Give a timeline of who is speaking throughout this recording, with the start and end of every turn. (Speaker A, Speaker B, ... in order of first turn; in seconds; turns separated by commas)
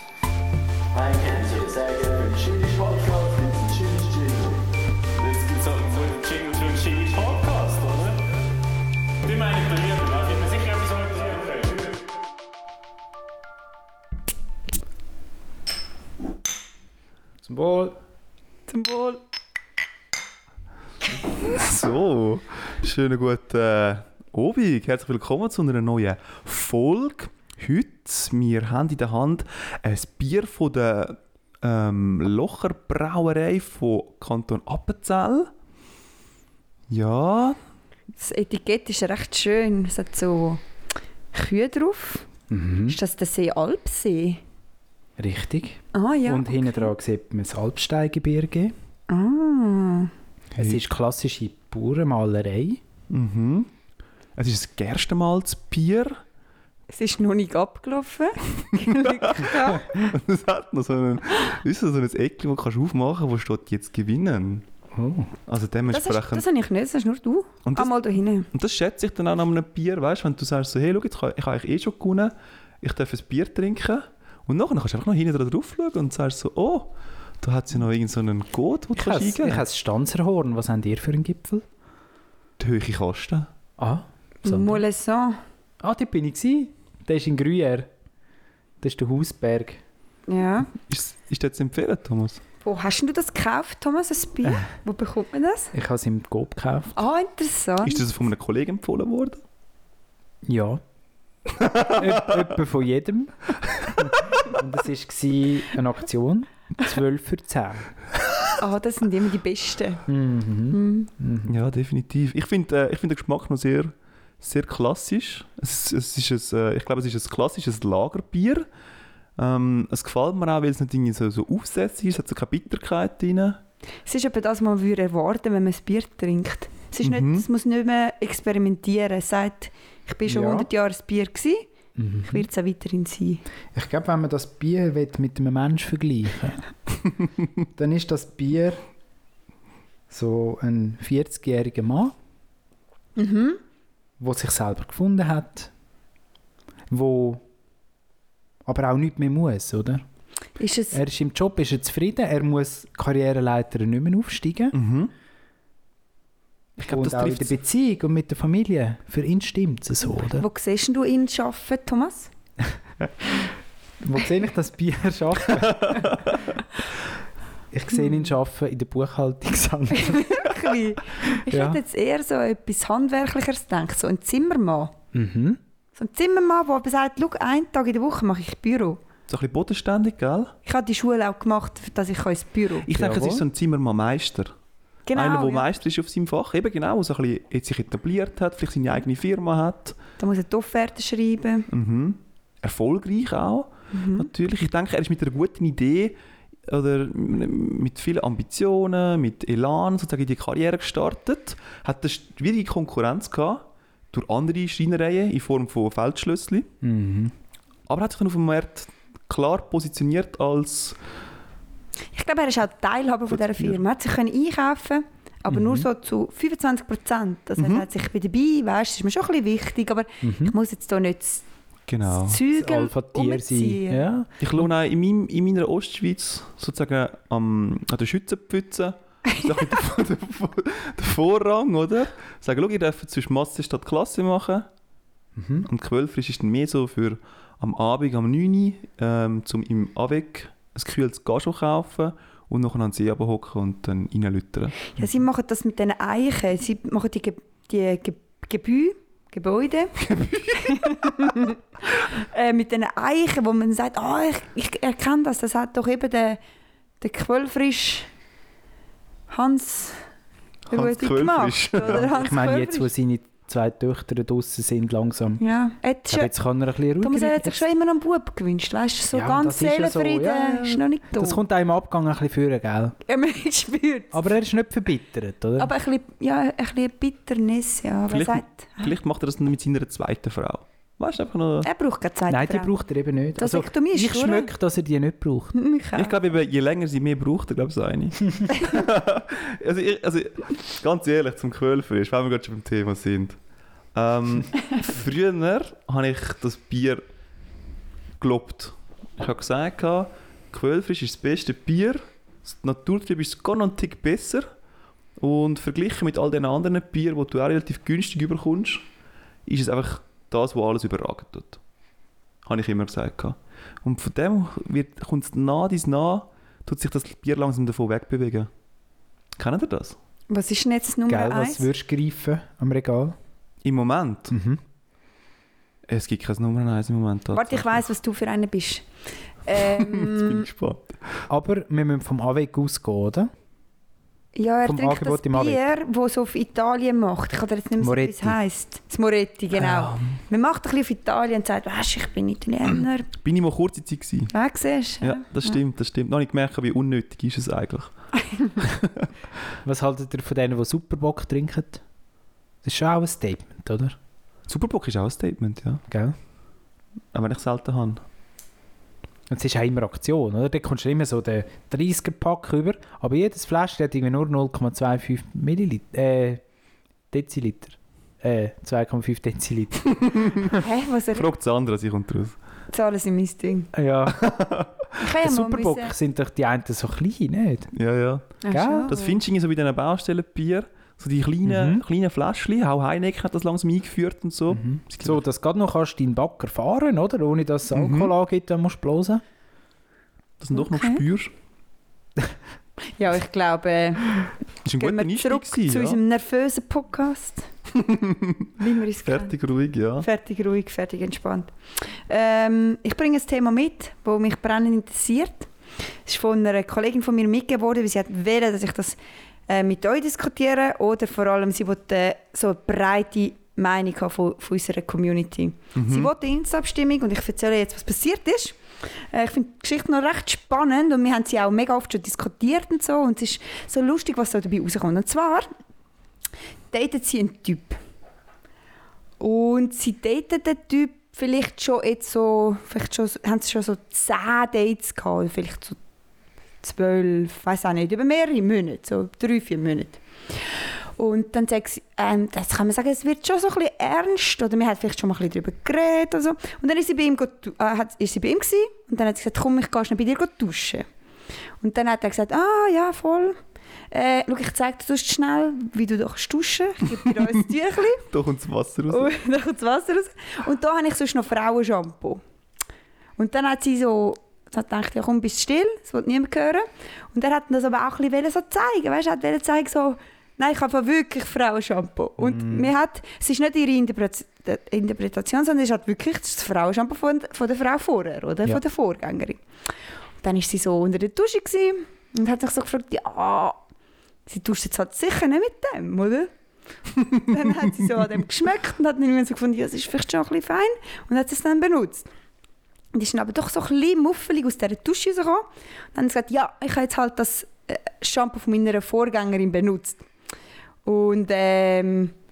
Speaker A: 0.9-4.6, Speaker B: 1.2-2.3, Speaker B: 5.2-8.2, Speaker B: 9.2-12.0, Speaker C: 17.4-18.0, Speaker D: 18.7-19.2, Speaker E: 21.4-35.5, Speaker E: 36.9-37.6, Speaker D: 38.2-40.6, Speaker D: 41.3-42.3, Speaker C: 42.5-43.0, Speaker D: 42.9-44.4, Speaker C: 45.2-48.7, Speaker D: 45.9-46.9, Speaker D: 49.1-50.1, Speaker C: 50.5-52.8, Speaker E: 50.6-50.8, Speaker E: 53.1-53.7, Speaker E: 54.4-56.2, Speaker D: 56.9-59.9, Speaker E: 58.8-64.7, Speaker C: 64.9-65.3, Speaker E: 65.5-66.5, Speaker D: 65.9-68.5, Speaker E: 67.7-67.9, Speaker E: 68.5-79.6, Speaker C: 79.0-81.7, Speaker E: 82.6-83.5, Speaker C: 83.8-84.8, Speaker D: 84.5-85.4, Speaker C: 85.8-87.9, Speaker C: 88.8-89.8, Speaker D: 90.3-90.7, Speaker E: 90.8-92.4, Speaker D: 92.6-95.7, Speaker C: 95.7-97.0, Speaker D: 97.0-98.1, Speaker E: 97.8-99.4, Speaker C: 100.5-100.8, Speaker C: 101.7-103.3, Speaker E: 101.8-102.2, Speaker C: 104.0-107.9, Speaker D: 108.6-110.0, Speaker C: 110.1-111.5, Speaker D: 110.7-111.1, Speaker E: 111.5-118.7, Speaker E: 119.4-123.6, Speaker D: 124.1-131.7, Speaker E: 127.0-127.5, Speaker C: 130.3-130.7, Speaker C: 132.0-132.5, Speaker D: 132.2-133.4, Speaker C: 133.7-136.6, Speaker C: 137.8-138.8, Speaker C: 140.1-142.1, Speaker D: 143.2-143.6, Speaker C: 144.2-145.7, Speaker C: 146.9-147.4, Speaker C: 148.7-150.0, Speaker D: 150.6-151.0, Speaker C: 150.9-154.8, Speaker E: 154.7-155.1, Speaker E: 156.8-157.5, Speaker C: 156.8-160.5, Speaker D: 160.3-162.3, Speaker C: 163.0-163.3, Speaker C: 164.0-166.1, Speaker E: 165.8-166.2, Speaker C: 167.7-170.5, Speaker D: 169.9-174.9, Speaker C: 171.3-171.8, Speaker C: 175.1-175.6, Speaker D: 176.0-179.0, Speaker E: 179.3-180.5, Speaker D: 180.7-182.9, Speaker E: 182.9-184.5, Speaker C: 182.9-183.4, Speaker D: 185.1-185.7, Speaker E: 185.1-190.0, Speaker D: 190.2-191.7, Speaker E: 191.7-196.2, Speaker D: 193.9-194.3, Speaker E: 196.7-206.7, Speaker C: 206.8-207.3, Speaker E: 207.9-211.0, Speaker D: 212.1-221.4, Speaker E: 213.3-213.8, Speaker C: 215.5-215.9, Speaker E: 217.6-217.9, Speaker C: 220.2-220.6, Speaker E: 221.9-222.4, Speaker D: 222.1-224.0, Speaker C: 222.5-224.3, Speaker E: 224.4-234.7, Speaker C: 235.4-235.7, Speaker E: 235.7-244.8, Speaker D: 244.9-250.0, Speaker E: 250.0-250.9, Speaker D: 250.5-256.4, Speaker D: 257.0-258.1, Speaker D: 259.3-260.0, Speaker E: 260.7-262.1, Speaker D: 260.7-262.9, Speaker C: 261.9-265.4, Speaker D: 265.4-266.3, Speaker C: 266.1-267.6, Speaker D: 267.0-271.4, Speaker C: 269.1-273.0, Speaker D: 273.1-274.2, Speaker C: 274.1-275.7, Speaker D: 275.6-278.9, Speaker E: 278.1-281.7, Speaker D: 281.6-282.7, Speaker C: 282.3-285.6, Speaker D: 283.4-284.5, Speaker D: 285.6-286.1, Speaker E: 285.9-293.4, Speaker E: 293.9-297.0, Speaker E: 298.2-304.5, Speaker E: 305.2-308.9, Speaker E: 309.5-311.6, Speaker E: 312.4-318.5, Speaker E: 319.4-320.0, Speaker D: 320.3-321.7, Speaker C: 321.1-323.2, Speaker E: 323.6-324.3, Speaker C: 324.3-324.6, Speaker E: 325.9-327.9, Speaker D: 327.3-328.9, Speaker D: 329.4-330.4, Speaker E: 329.6-331.0, Speaker C: 331.3-333.3, Speaker D: 334.4-343.1, Speaker C: 334.6-335.6, Speaker C: 337.8-338.4, Speaker E: 343.2-344.3, Speaker D: 344.3-345.5, Speaker E: 345.0-347.9, Speaker D: 348.2-348.6, Speaker E: 348.6-349.1, Speaker C: 349.6-351.8, Speaker C: 352.6-354.0, Speaker E: 354.5-355.8, Speaker C: 355.9-356.2, Speaker E: 357.1-358.0, Speaker C: 359.3-366.4, Speaker C: 367.1-370.6, Speaker E: 369.9-370.5, Speaker D: 370.5-371.3, Speaker E: 371.1-372.4, Speaker D: 372.7-373.7, Speaker C: 373.7-374.4, Speaker E: 374.1-374.9, Speaker D: 375.0-375.9, Speaker C: 375.2-377.7, Speaker E: 377.7-385.2, Speaker D: 378.4-379.2, Speaker C: 378.5-378.9, Speaker C: 381.4-381.8, Speaker C: 384.5-389.2, Speaker E: 387.7-388.1, Speaker E: 390.4-391.3, Speaker D: 390.6-391.0, Speaker D: 392.9-397.5, Speaker E: 394.6-396.0, Speaker E: 397.7-398.5, Speaker D: 398.6-399.3, Speaker E: 399.1-400.1, Speaker D: 400.0-405.5, Speaker D: 406.1-418.6, Speaker E: 415.8-416.1, Speaker D: 419.1-425.5, Speaker D: 426.7-427.8, Speaker D: 429.2-435.8, Speaker D: 436.6-440.0, Speaker D: 441.0-450.9, Speaker D: 451.6-453.4, Speaker D: 453.9-458.0, Speaker E: 458.1-459.1, Speaker D: 458.9-462.2, Speaker D: 463.2-479.4, Speaker C: 472.2-472.7, Speaker D: 480.2-483.6, Speaker D: 484.3-486.3, Speaker D: 487.1-492.1, Speaker D: 492.9-500.0, Speaker D: 500.9-502.1